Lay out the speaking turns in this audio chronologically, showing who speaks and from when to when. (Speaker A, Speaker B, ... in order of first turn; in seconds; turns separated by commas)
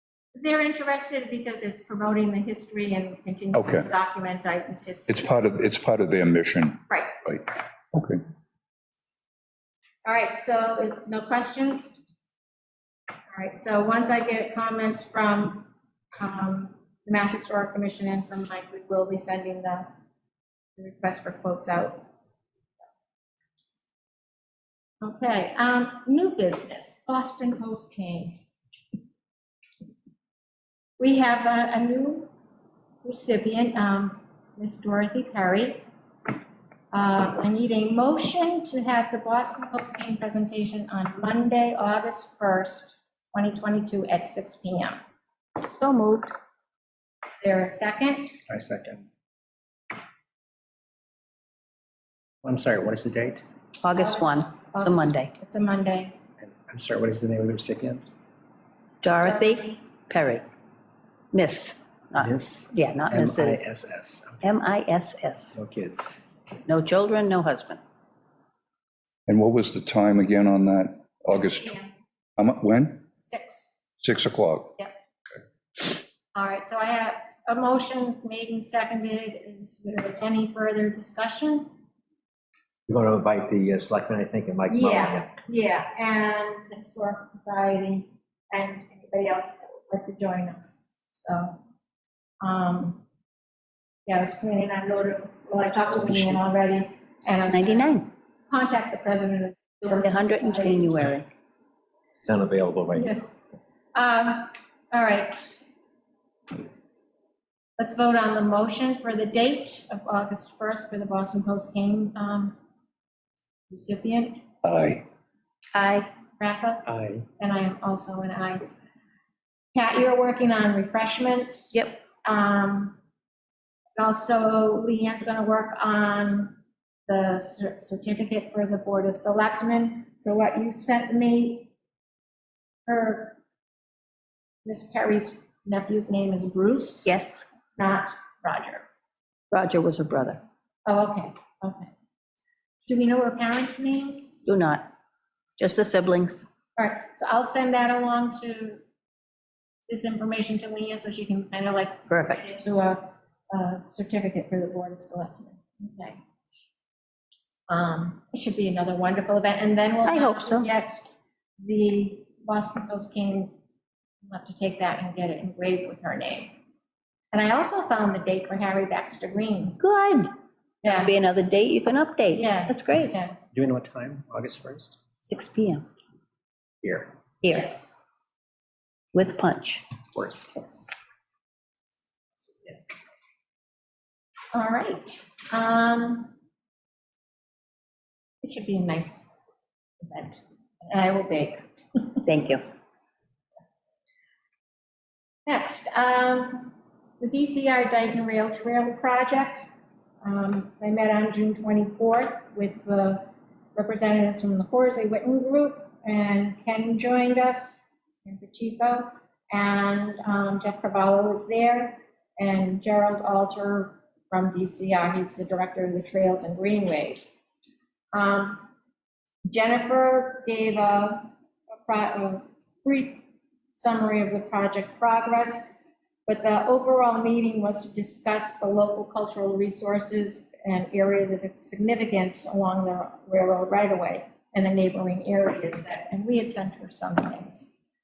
Speaker A: 0.3-5.4, Speaker B: 3.5-3.9, Speaker B: 5.1-8.2, Speaker A: 10.0-12.1, Speaker A: 13.3-19.9, Speaker A: 20.8-22.0, Speaker A: 25.0-28.3, Speaker A: 31.0-32.3, Speaker A: 33.0-35.8, Speaker A: 36.9-45.0, Speaker A: 45.8-46.2, Speaker A: 47.3-48.4, Speaker C: 48.5-49.0, Speaker C: 52.4-53.4, Speaker D: 53.8-55.3, Speaker A: 53.9-56.1, Speaker C: 56.4-58.1, Speaker D: 59.0-60.4, Speaker A: 59.2-59.8, Speaker D: 61.3-63.7, Speaker C: 62.2-64.5, Speaker D: 64.4-65.5, Speaker C: 65.5-66.2, Speaker D: 66.7-67.8, Speaker B: 69.3-71.7, Speaker A: 71.2-71.9, Speaker B: 72.4-73.0, Speaker A: 73.1-73.9, Speaker B: 74.0-74.7, Speaker A: 76.3-81.7, Speaker E: 82.9-85.3, Speaker A: 84.7-91.6, Speaker A: 92.4-93.0, Speaker A: 94.0-101.0, Speaker D: 97.5-98.1, Speaker D: 100.0-101.3, Speaker E: 102.2-103.1, Speaker A: 103.0-103.2, Speaker A: 103.9-105.7, Speaker A: 107.8-112.5, Speaker A: 113.7-114.4, Speaker B: 114.6-115.0, Speaker D: 115.7-116.0, Speaker A: 116.4-116.8, Speaker C: 116.9-117.2, Speaker A: 117.4-118.6, Speaker A: 119.7-123.0, Speaker A: 124.0-126.6, Speaker A: 127.1-131.7, Speaker A: 132.9-133.4, Speaker A: 134.7-137.2, Speaker D: 137.1-137.5, Speaker A: 137.8-138.8, Speaker D: 139.5-140.4, Speaker A: 140.9-141.9, Speaker A: 142.9-144.4, Speaker D: 144.4-144.8, Speaker D: 145.6-146.5, Speaker A: 146.8-148.8, Speaker A: 149.9-156.2, Speaker D: 152.1-152.5, Speaker A: 157.7-161.1, Speaker D: 160.0-160.7, Speaker A: 161.6-163.5, Speaker A: 164.2-166.6, Speaker A: 167.3-169.8, Speaker D: 169.8-170.3, Speaker A: 170.8-171.1, Speaker D: 170.9-173.1, Speaker A: 172.3-173.4, Speaker C: 173.5-175.0, Speaker D: 175.2-175.8, Speaker C: 176.8-177.1, Speaker D: 177.4-177.8, Speaker A: 177.5-178.0, Speaker D: 179.1-179.8, Speaker C: 180.1-180.9, Speaker A: 184.5-186.3, Speaker A: 188.4-189.4, Speaker A: 190.0-191.6, Speaker D: 192.2-192.6, Speaker A: 195.5-199.7, Speaker A: 200.2-203.2, Speaker A: 203.8-217.4, Speaker A: 218.1-218.6, Speaker A: 219.4-221.3, Speaker A: 221.8-223.2, Speaker A: 223.7-237.8